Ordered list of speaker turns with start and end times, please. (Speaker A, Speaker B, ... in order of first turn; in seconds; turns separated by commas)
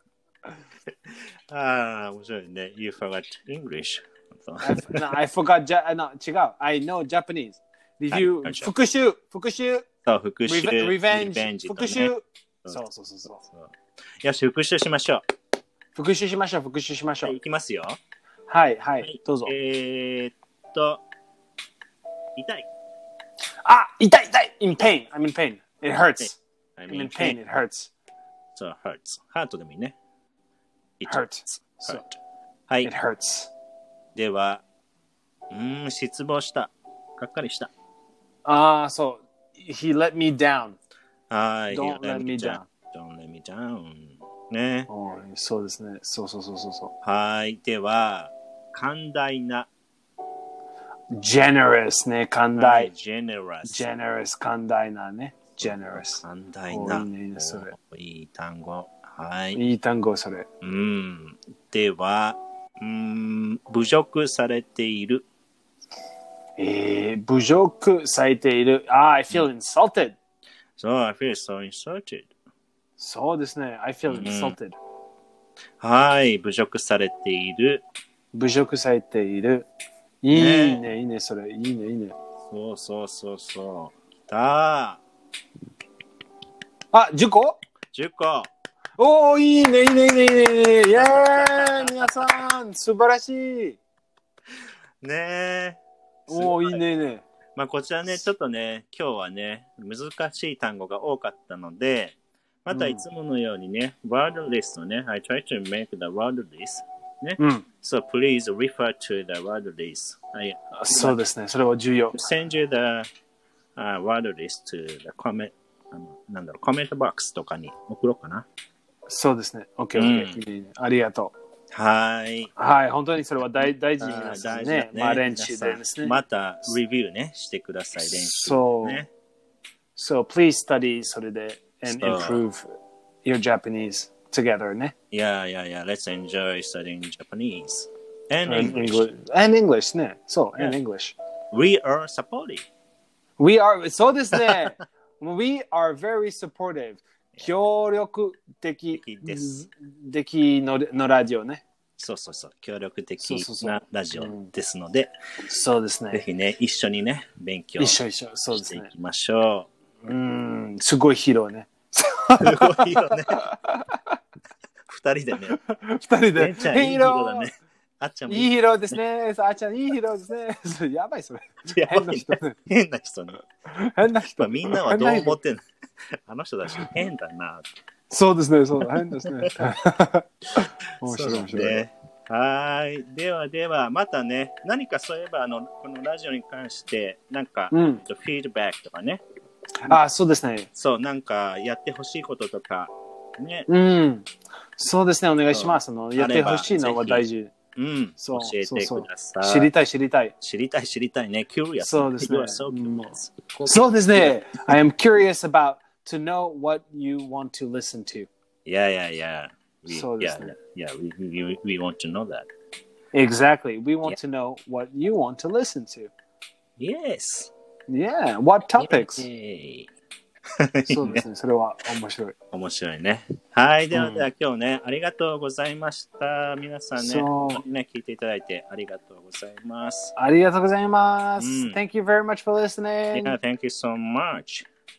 Speaker A: 0.9-5.1, Speaker B: 4.6-9.9, Speaker A: 8.1-8.7, Speaker A: 10.0-12.1, Speaker B: 10.4-13.4, Speaker A: 13.4-15.2, Speaker B: 15.9-17.3, Speaker A: 17.2-18.0, Speaker B: 18.5-19.5, Speaker A: 19.0-21.0, Speaker A: 22.3-22.7, Speaker B: 23.6-26.4, Speaker A: 26.2-27.4, Speaker B: 26.9-27.9, Speaker A: 28.5-29.9, Speaker A: 31.0-32.9, Speaker B: 31.1-32.0, Speaker B: 32.8-33.5, Speaker A: 34.1-34.6, Speaker A: 35.5-37.7, Speaker B: 38.5-40.8, Speaker A: 41.3-44.9, Speaker B: 41.7-42.7, Speaker B: 44.9-46.9, Speaker A: 47.0-49.7, Speaker B: 51.1-52.9, Speaker A: 52.5-53.9, Speaker B: 53.6-57.7, Speaker A: 55.6-59.6, Speaker B: 59.5-60.5, Speaker A: 60.6-65.2, Speaker B: 66.6-70.2, Speaker A: 70.8-72.3, Speaker B: 73.0-74.8, Speaker A: 74.1-74.6, Speaker A: 75.8-77.8, Speaker B: 78.3-79.7, Speaker B: 80.2-82.1, Speaker A: 80.3-80.8, Speaker A: 82.5-85.0, Speaker B: 86.9-87.6, Speaker A: 87.9-88.5, Speaker B: 89.0-93.8, Speaker A: 91.0-92.1, Speaker A: 95.0-96.8, Speaker B: 96.3-97.2, Speaker A: 97.5-111.2, Speaker B: 102.7-103.0, Speaker B: 107.4-107.6, Speaker B: 110.7-112.2, Speaker A: 112.1-113.1, Speaker A: 113.8-118.5, Speaker B: 119.1-121.3, Speaker A: 119.9-120.4, Speaker A: 121.7-122.5, Speaker B: 122.6-126.2, Speaker A: 124.0-129.1, Speaker B: 128.0-129.0, Speaker B: 129.9-132.7, Speaker A: 131.9-132.4, Speaker B: 133.2-134.9, Speaker A: 135.1-139.1, Speaker B: 138.4-141.2, Speaker A: 141.5-142.7, Speaker B: 143.4-151.6, Speaker A: 144.3-144.7, Speaker A: 148.9-149.5, Speaker A: 152.0-155.1, Speaker B: 153.2-154.5, Speaker B: 155.5-156.2, Speaker A: 156.1-158.0, Speaker B: 157.8-158.9, Speaker A: 158.5-159.7, Speaker B: 160.0-164.0, Speaker A: 162.4-163.4, Speaker A: 164.9-165.6, Speaker B: 165.6-167.5, Speaker A: 166.3-168.5, Speaker B: 168.3-172.5, Speaker A: 171.7-173.4, Speaker B: 173.7-175.4, Speaker A: 174.4-177.7, Speaker B: 176.7-176.9, Speaker B: 178.1-181.9, Speaker A: 178.8-179.7, Speaker A: 181.0-189.2, Speaker B: 187.7-188.0, Speaker B: 189.8-190.7, Speaker A: 190.7-193.7, Speaker B: 193.7-197.5, Speaker A: 195.5-199.7, Speaker B: 198.2-200.3, Speaker A: 200.4-204.7, Speaker B: 201.8-203.1, Speaker B: 203.7-208.3, Speaker A: 208.6-212.5, Speaker B: 209.9-210.5, Speaker B: 213.1-216.1, Speaker A: 216.8-217.5, Speaker B: 217.9-219.3, Speaker A: 218.8-219.9, Speaker A: 220.6-221.2, Speaker B: 220.8-222.3, Speaker A: 222.5-230.1, Speaker B: 223.9-224.3, Speaker B: 227.0-227.6, Speaker B: 230.2-233.4, Speaker A: 231.4-231.8, Speaker A: 233.1-234.7